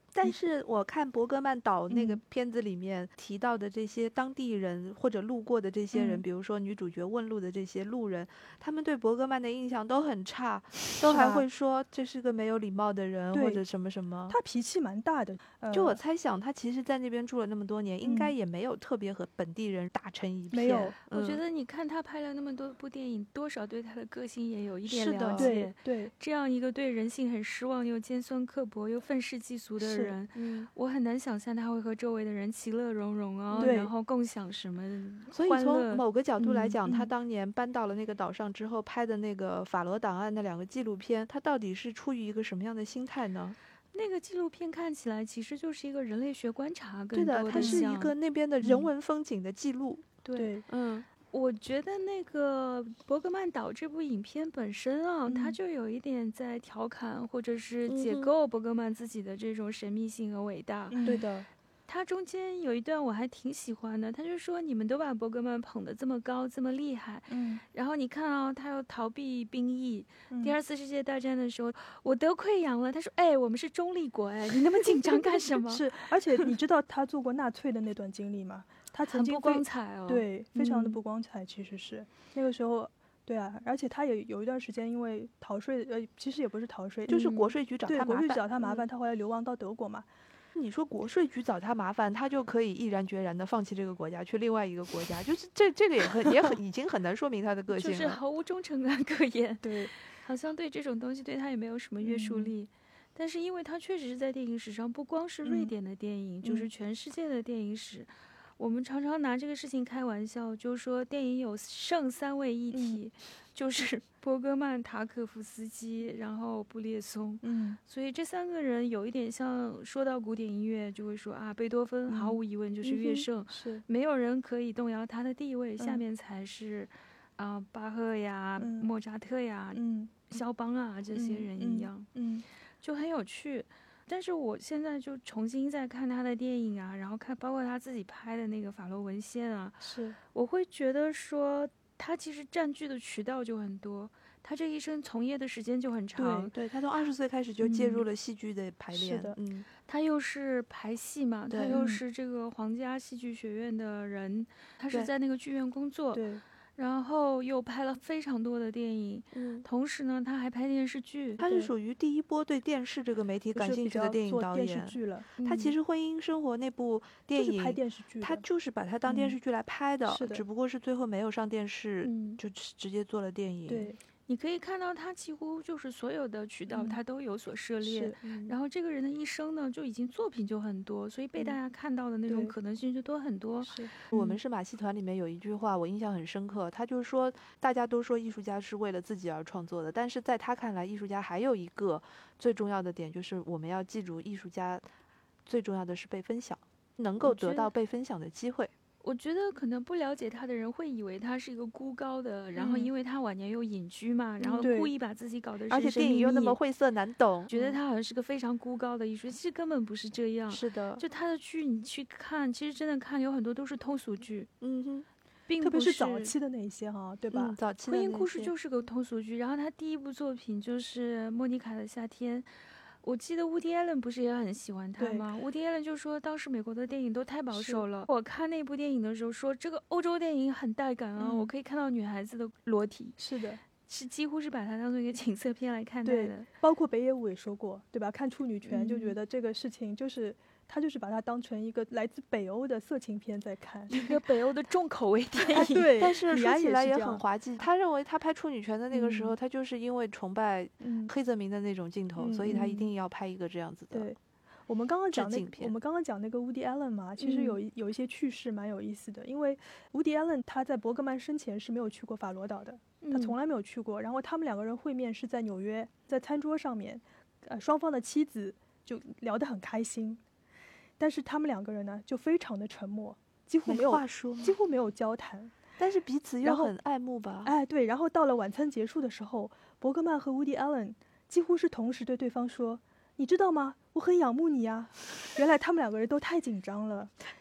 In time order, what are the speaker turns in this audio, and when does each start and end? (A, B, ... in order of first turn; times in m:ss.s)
0:00.1-0:14.4 A
0:01.9-0:02.2 B
0:05.9-0:06.2 B
0:11.0-0:11.5 B
0:13.3-0:13.6 B
0:14.3-0:16.0 B
0:15.7-0:21.4 A
0:18.0-0:18.3 B
0:20.5-0:21.0 B
0:21.1-0:36.8 C
0:24.9-0:25.5 A
0:25.4-0:26.1 B
0:29.8-0:30.2 B
0:30.4-0:30.7 A
0:33.6-0:33.9 B
0:35.3-0:43.6 A
0:36.8-0:37.1 B
0:43.9-0:48.1 C
0:47.1-0:50.1 A
0:47.5-0:47.9 B
0:48.6-0:48.9 B
0:50.2-1:01.1 C
0:50.4-0:50.6 B
0:55.3-0:55.6 B
0:57.9-0:58.3 A
1:00.9-1:01.5 B
1:01.9-1:16.5 C
1:07.3-1:07.6 B
1:10.3-1:10.6 B
1:15.0-1:27.3 B
1:19.1-1:21.0 C
1:27.1-1:27.5 C
1:27.1-1:28.8 A
1:27.8-1:30.1 B
1:30.6-1:38.2 A
1:37.7-2:12.1 C
1:39.6-1:39.9 B
1:42.0-1:42.5 B
1:45.4-1:45.7 B
1:46.4-1:46.7 B
1:52.7-1:53.0 B
1:57.4-1:57.8 B
2:02.1-2:03.8 B
2:08.6-2:08.9 B
2:09.7-2:10.3 B
2:11.1-2:12.4 B
2:12.8-2:26.5 C
2:19.8-2:20.2 B
2:26.2-2:26.5 B
2:26.5-2:29.7 A
2:28.9-2:29.4 B
2:29.9-2:36.2 C
2:31.5-2:31.8 A
2:31.7-2:32.0 B
2:36.1-2:36.4 B
2:36.8-2:41.4 C
2:39.3-2:39.6 A
2:41.4-2:53.9 A
2:41.4-2:41.7 B
2:43.6-2:45.3 B
2:45.4-2:45.8 C
2:47.3-2:48.4 B
2:49.1-2:49.4 B
2:50.1-2:50.4 B
2:52.0-2:52.4 C
2:53.7-2:54.0 B
2:54.3-3:03.9 C
2:56.7-2:57.0 B
2:57.8-2:58.5 B
3:02.3-3:02.5 B
3:03.6-3:04.4 B
3:04.1-3:14.9 A
3:15.5-3:18.7 A
3:17.2-3:17.7 C
3:19.0-3:26.6 C
3:22.6-3:22.9 A
3:24.4-3:24.7 A
3:24.6-3:24.9 B
3:25.7-3:27.8 A
3:27.5-3:34.5 C
3:30.5-3:31.0 A
3:34.6-3:35.1 A
3:35.5-3:36.3 C
3:35.6-3:37.6 B
3:37.3-3:38.5 A
3:37.8-3:42.5 C
3:43.0-3:53.2 C
3:45.0-3:45.3 B
3:47.5-3:47.8 B
3:51.2-3:51.5 B
3:53.2-3:53.6 B
3:53.7-3:56.5 C
3:56.0-4:04.2 B
3:58.7-3:59.2 C
4:03.9-4:06.0 C
4:05.5-4:07.2 B
4:05.6-4:14.1 A
4:08.9-4:09.4 B
4:10.8-4:11.1 B
4:12.2-4:12.9 B
4:13.9-4:30.2 B
4:15.1-4:15.7 A
4:17.2-4:17.6 C
4:23.0-4:23.4 C
4:31.0-4:35.6 B
4:33.7-4:34.6 A
4:35.8-4:37.5 A
4:36.4-4:36.7 B
4:37.4-4:47.1 B